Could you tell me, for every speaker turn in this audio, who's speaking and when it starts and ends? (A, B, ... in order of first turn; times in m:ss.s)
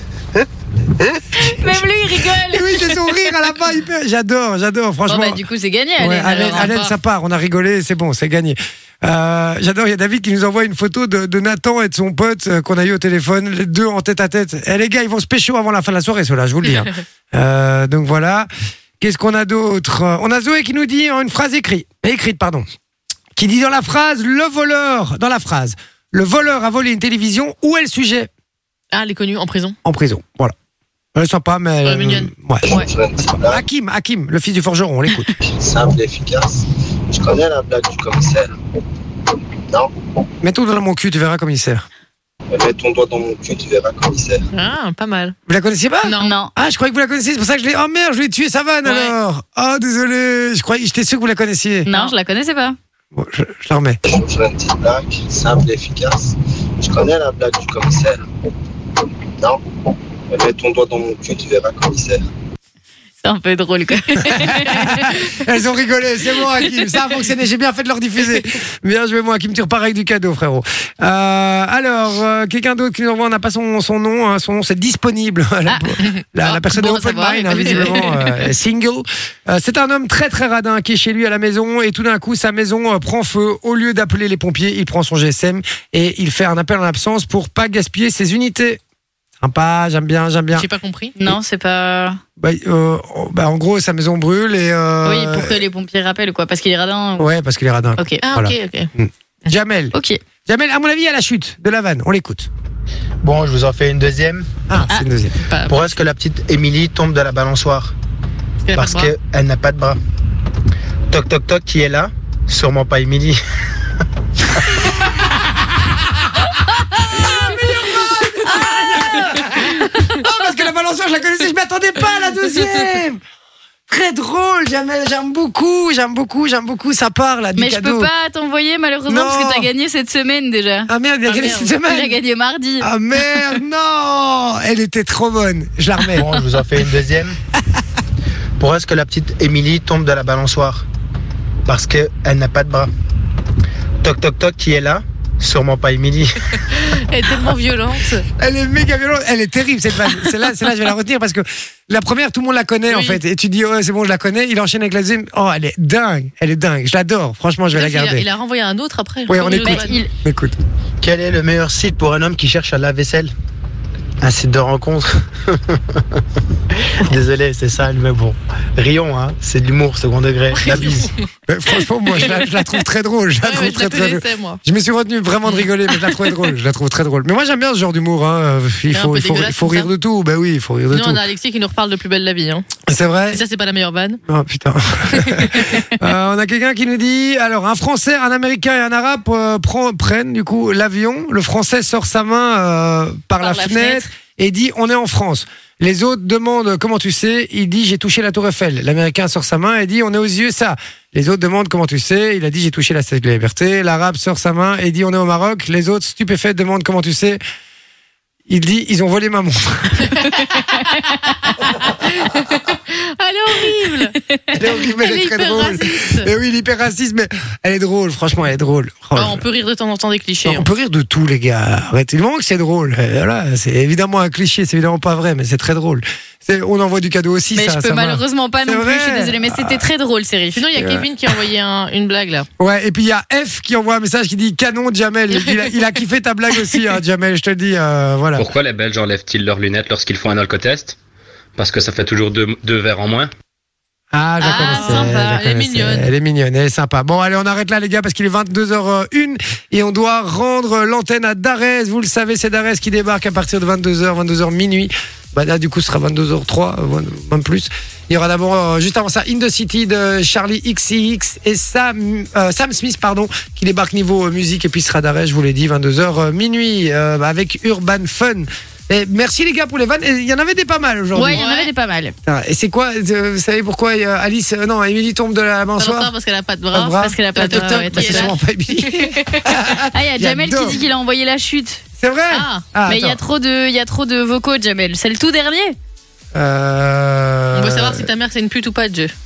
0:01.4-0:03.1 A
0:02.5-0:05.4 B
0:05.1-0:06.8 A
0:06.0-0:18.5 B
0:06.3-0:06.9 C
0:19.0-0:22.7 B
0:23.4-0:28.3 B
0:28.9-0:29.8 C
0:29.8-0:30.5 B
0:31.2-0:32.7 B
0:31.8-0:32.9 C
0:32.6-0:33.6 D
0:33.5-0:35.3 B
0:35.4-0:38.5 D
0:40.4-0:41.9 B
0:42.5-0:44.5 D
0:44.5-0:45.4 C
0:45.5-0:51.9 B
0:46.0-0:46.3 C
0:46.2-0:46.5 A
0:48.8-0:49.1 C
0:51.9-0:52.8 A
0:53.1-0:54.0 B
0:54.0-0:58.2 D
1:00.3-1:02.2 D
1:03.2-1:05.2 A
1:04.2-1:28.8 B
1:16.0-1:18.3 C
1:17.5-1:18.0 A
1:29.4-1:30.7 B
1:30.5-1:31.2 C
1:31.2-1:32.2 A
1:32.4-1:35.6 B
1:35.0-1:37.3 A
1:37.2-1:40.0 B
1:38.2-1:38.9 C
1:40.5-1:42.5 B
1:43.2-1:44.5 E
1:44.7-1:45.4 B
1:45.5-1:45.8 C
1:45.7-1:47.9 E
1:48.6-1:49.1 C
1:48.7-1:50.0 E
1:51.1-1:53.4 E
1:57.0-2:03.2 B
2:03.9-2:08.1 B
2:07.6-2:12.9 A
2:09.1-2:09.7 B
2:10.9-2:12.2 B
2:11.3-2:11.7 C
2:12.8-2:16.3 B
2:16.1-2:17.4 E
2:18.6-2:20.8 E
2:21.7-2:22.9 E
2:24.0-2:26.4 E
2:26.9-2:28.2 C
2:28.4-2:38.3 B
2:32.9-2:33.2 C
2:37.7-2:40.0 C
2:39.3-2:40.6 B
2:39.5-2:40.1 A
2:41.0-2:43.3 E
2:44.2-2:46.0 E
2:47.0-2:51.1 E
2:50.6-2:51.1 C
2:51.5-3:01.2 B
2:52.1-2:52.6 C
2:53.4-2:54.6 C
2:55.5-2:55.9 C
2:58.9-2:59.9 C
3:00.9-3:02.7 C
3:02.9-3:03.4 B
3:03.3-3:04.2 C
3:04.2-3:27.4 B
3:05.2-3:05.9 C
3:13.4-3:14.1 C
3:28.5-3:30.1 B
3:30.3-3:31.0 A
3:32.0-3:36.3 C
3:34.6-3:39.4 B
3:39.2-3:40.7 C
3:40.4-3:49.8 B
3:47.5-3:50.7 A
3:50.5-3:52.5 C
3:50.8-3:51.1 B
3:52.6-3:58.5 B
3:55.3-3:55.7 C
3:58.4-4:01.0 F
4:01.6-4:03.3 F
4:04.1-4:31.4 B
4:04.4-4:05.4 A
4:04.4-4:06.1 C
4:31.1-4:32.1 A
4:31.3-4:31.7 C
4:32.2-4:36.1 B
4:35.8-4:39.7 C
4:36.7-4:40.8 B
4:37.0-4:38.4 A
4:39.9-4:41.8 A
4:42.0-4:43.2 B
4:42.3-4:42.6 C
4:42.9-4:45.8 A
4:46.3-4:48.1 B
4:47.5-4:49.1 C